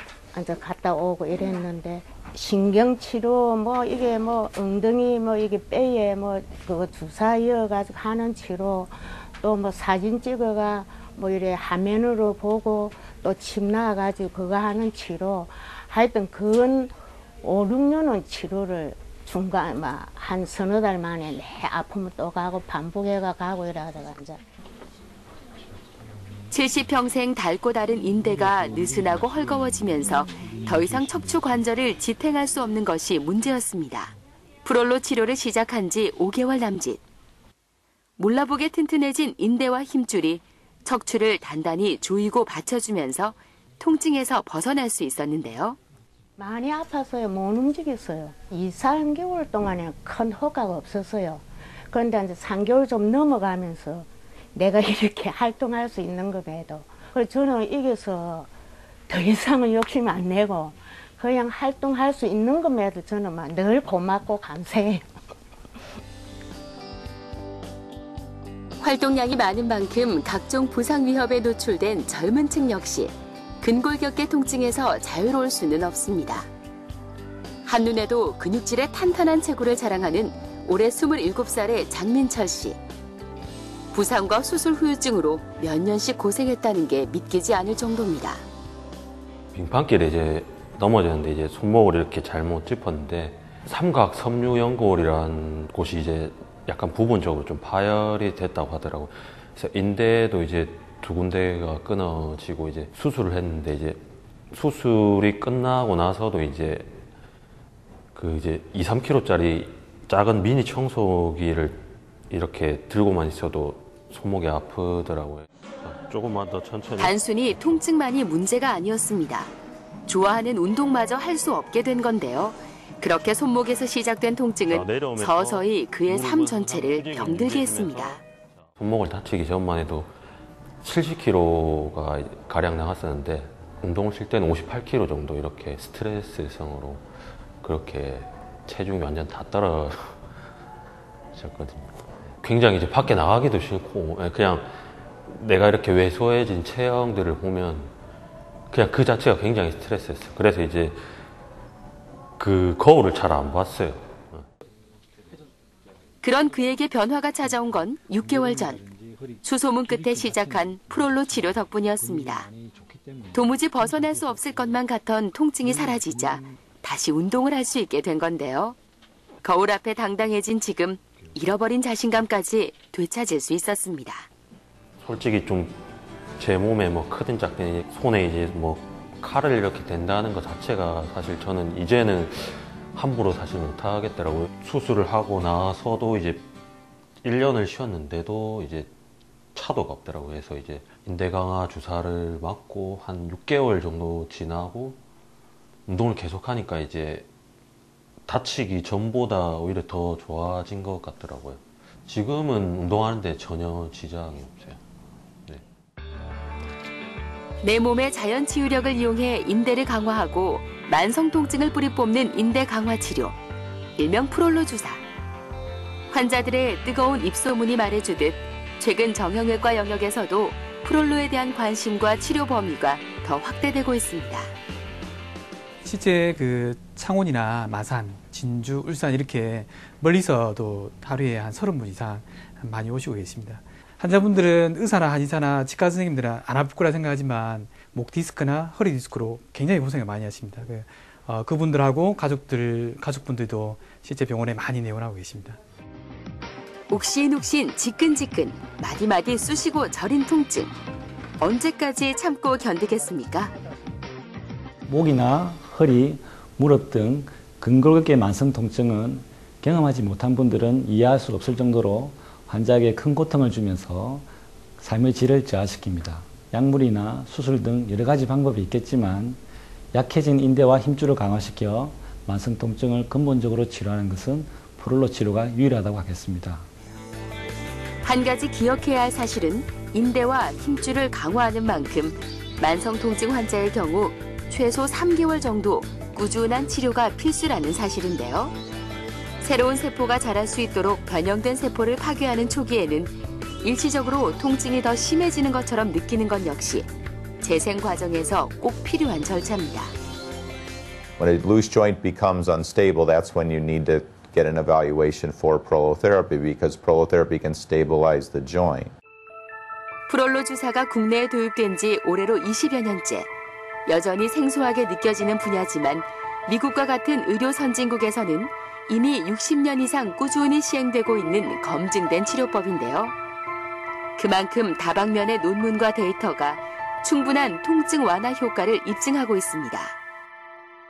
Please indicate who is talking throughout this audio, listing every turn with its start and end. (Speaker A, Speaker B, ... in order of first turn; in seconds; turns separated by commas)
Speaker A: 0.3-24.4, Speaker B: 26.5-34.1, Speaker B: 34.6-37.0, Speaker B: 38.2-45.8, Speaker A: 46.4-58.5, Speaker A: 59.1-65.0, Speaker B: 68.8-76.5, Speaker B: 77.7-82.8, Speaker B: 83.9-88.4, Speaker C: 89.5-107.0, Speaker C: 108.2-117.2, Speaker B: 117.0-119.5, Speaker B: 120.1-128.2, Speaker C: 124.7-128.2, Speaker C: 128.8-130.1, Speaker C: 130.8-137.1, Speaker C: 137.6-140.2, Speaker C: 141.3-144.7, Speaker C: 145.2-147.9, Speaker C: 148.7-151.0, Speaker C: 152.4-154.5, Speaker B: 156.2-158.8, Speaker D: 158.2-164.8, Speaker B: 159.4-162.5, Speaker B: 163.3-168.8, Speaker D: 165.6-166.6, Speaker B: 169.4-174.3, Speaker C: 175.0-175.8, Speaker C: 176.4-186.5, Speaker C: 187.2-188.9, Speaker C: 189.6-195.0, Speaker C: 195.9-197.3, Speaker C: 198.3-204.8, Speaker B: 207.6-213.4, Speaker B: 214.0-215.0, Speaker B: 216.1-224.5, Speaker E: 225.8-245.6, Speaker B: 246.9-250.7, Speaker B: 251.4-253.5, Speaker D: 254.9-264.3, Speaker D: 264.8-269.4, Speaker D: 269.9-276.7, Speaker B: 278.0-288.6, Speaker B: 289.4-296.9, Speaker B: 297.4-299.9, Speaker F: 301.2-308.9, Speaker B: 310.1-313.3, Speaker B: 313.9-323.1, Speaker B: 324.2-329.9